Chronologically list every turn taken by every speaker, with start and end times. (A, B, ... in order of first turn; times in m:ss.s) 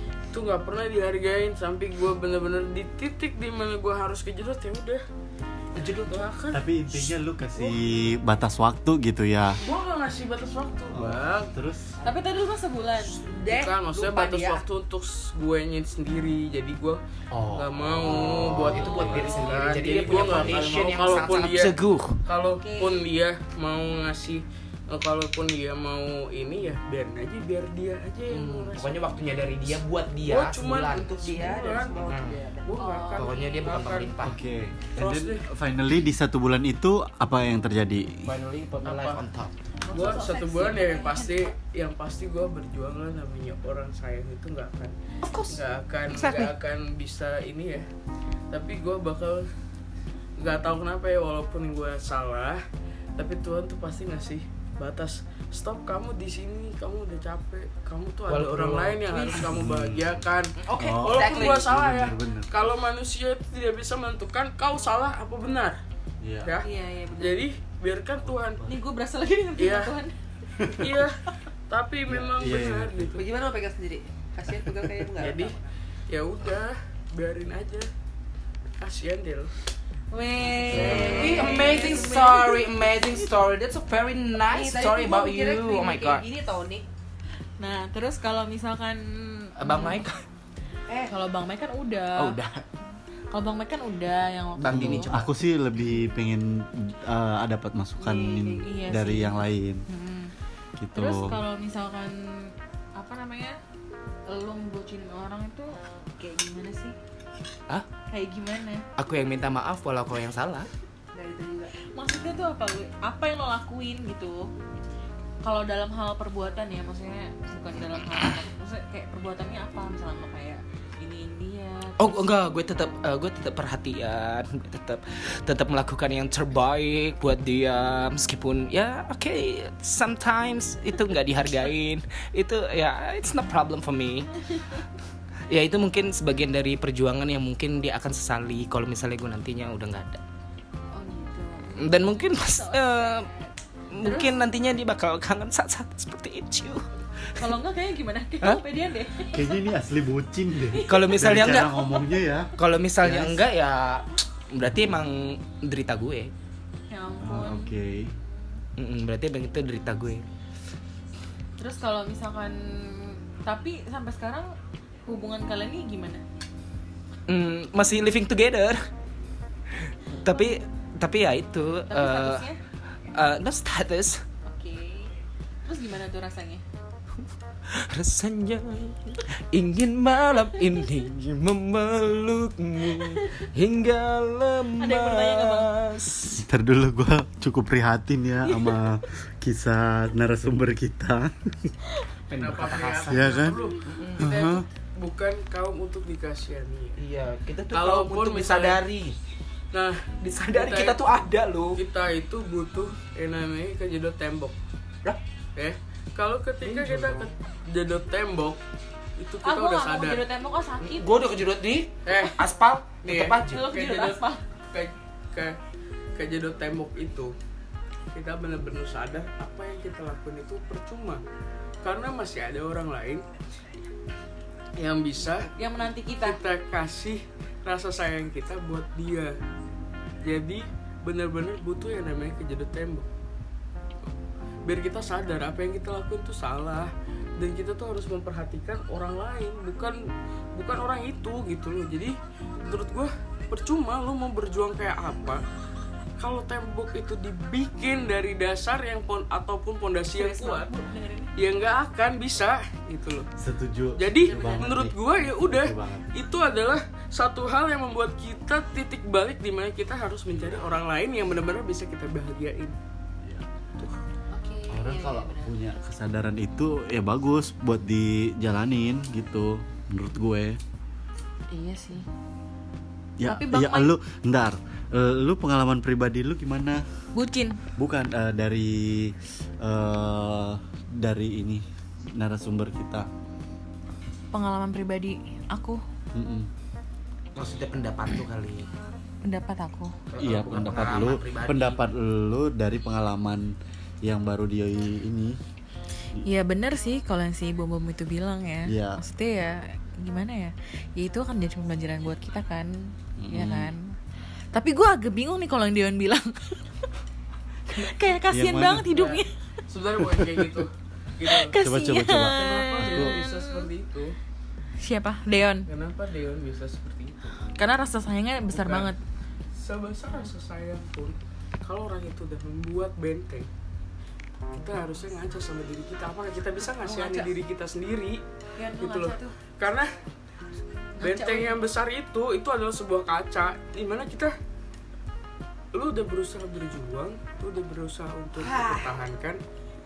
0:00.3-0:05.0 A
0:05.7-0:06.2 B
0:06.0-0:06.6 A
0:06.5-0:09.6 C
0:09.6-0:11.5 A
0:10.9-0:11.9 C
0:12.0-0:13.2 D
0:13.2-0:14.6 E
0:13.4-0:29.0 A
0:17.3-0:19.3 C
0:18.1-0:22.2 B
0:18.8-0:19.6 D
0:20.1-0:20.7 C
0:22.6-0:23.0 D
0:28.3-0:31.2 B
0:30.2-0:34.1 A
0:31.1-0:32.8 E
0:32.0-0:32.4 B
0:32.8-0:33.8 D
0:33.2-0:34.4 B
0:34.2-0:38.3 C
0:35.0-0:35.4 A
0:38.2-0:39.5 B
0:38.8-0:39.2 A
0:39.8-0:41.5 D
0:39.9-0:44.9 A
0:45.2-0:45.6 B
0:45.5-0:47.9 A
0:46.1-0:46.5 B
0:48.5-0:49.5 A
0:50.4-0:52.6 A
0:53.2-1:05.8 A
0:58.3-0:59.3 B
0:59.1-0:59.5 D
0:59.4-1:00.2 C
1:00.6-1:01.6 B
1:00.7-1:01.0 D
1:00.8-1:02.5 C
1:06.2-1:06.6 C
1:06.4-1:08.6 A
1:06.6-1:07.4 D
1:08.2-1:08.6 C
1:08.6-1:10.1 D
1:09.6-1:10.0 A
1:10.6-1:10.9 C
1:10.8-1:13.2 A
1:12.1-1:13.2 C
1:13.2-1:15.7 E
1:15.2-1:15.6 A
1:16.1-1:17.9 A
1:18.8-1:19.5 A
1:20.1-1:22.8 D
1:20.7-1:21.3 C
1:20.7-1:22.2 E
1:20.7-1:26.2 B
1:20.8-1:21.8 A
1:24.5-1:26.8 E
1:27.6-1:30.0 D
1:29.6-1:30.2 B
1:30.9-1:31.1 E
1:31.1-1:32.4 D
1:32.2-1:32.6 B
1:33.3-1:35.1 D
1:34.6-1:35.3 B
1:34.6-1:39.8 C
1:38.0-1:40.3 D
1:38.0-1:38.7 E
1:40.8-1:41.4 C
1:40.9-1:43.6 D
1:44.3-1:47.0 D
1:48.1-1:48.8 D
1:49.0-1:50.7 B
1:51.1-1:51.7 E
1:51.8-1:54.5 D
1:55.4-2:02.4 D
1:57.9-1:58.2 B
2:02.0-2:14.3 B
2:15.5-2:20.2 B
2:20.9-2:24.4 D
2:21.8-2:23.3 B
2:23.9-2:26.8 B
2:27.4-2:29.7 D
2:29.3-2:33.4 C
2:30.7-2:31.1 D
2:30.9-2:31.8 B
2:31.7-2:32.1 D
2:32.6-2:36.3 B
2:36.9-2:37.7 D
2:37.2-2:38.1 C
2:38.8-2:40.2 B
2:41.6-2:44.5 D
2:45.0-2:46.2 D
2:47.3-2:48.8 B
2:50.1-2:52.4 B
2:50.2-2:50.6 D
2:51.9-2:52.6 D
2:53.1-2:54.2 B
2:54.4-2:55.1 D
2:55.6-2:56.6 D
2:57.7-3:06.4 B
3:04.8-3:05.7 D
3:06.4-3:11.7 C
3:08.5-3:08.8 D
3:12.3-3:13.3 B
3:12.3-3:17.0 A
3:13.1-3:13.6 C
3:13.9-3:14.2 B
3:14.2-3:14.6 C
3:17.0-3:19.2 B
3:17.7-3:18.8 A
3:19.7-3:21.0 A
3:20.2-3:21.8 B
3:21.8-3:24.6 A
3:25.6-3:28.6 A
3:26.6-3:27.3 B
3:29.2-3:30.2 A
3:29.4-3:31.2 D
3:30.9-3:33.6 B
3:32.0-3:32.4 A
3:33.0-3:35.6 A
3:33.4-3:34.4 D
3:36.2-3:37.3 A
3:38.1-3:41.2 A
3:41.8-3:43.2 A
3:44.8-3:45.5 A
3:45.6-3:46.4 D
3:46.2-3:49.4 A
3:50.2-3:53.1 A
3:54.6-4:00.0 A
4:00.5-4:05.4 A
4:06.2-4:10.7 A
4:10.1-4:11.3 D
4:11.4-4:13.3 A
4:13.4-4:16.1 C
4:14.0-4:22.8 A
4:20.3-4:20.6 C
4:24.3-4:25.5 E
4:24.7-4:30.6 C
4:31.5-4:32.0 D
4:33.2-4:36.8 C
4:33.2-4:33.9 D
4:37.1-4:37.6 D
4:37.8-4:43.1 C
4:44.3-4:45.8 D
4:46.1-4:46.5 C
4:47.4-4:48.7 B
4:49.2-4:49.9 D
4:50.1-4:51.8 B
4:50.2-4:55.4 C
4:56.2-5:03.9 D
4:58.6-4:59.0 C
5:03.2-5:03.7 C
5:04.5-5:06.6 D
5:07.7-5:09.3 D
5:08.3-5:08.9 C
5:08.9-5:11.6 A
5:10.1-5:10.6 C
5:11.2-5:13.7 D
5:11.6-5:13.2 C
5:12.2-5:14.1 A
5:14.8-5:15.7 D
5:15.7-5:17.4 A
5:17.6-5:19.0 D
5:18.5-5:18.9 A
5:19.5-5:23.5 A
5:24.5-5:28.2 A
5:26.8-5:27.3 D
5:28.6-5:29.4 D
5:28.8-5:29.9 A
5:31.0-5:31.6 D
5:31.0-5:34.3 A
5:35.7-5:39.4 A
5:38.4-5:39.0 E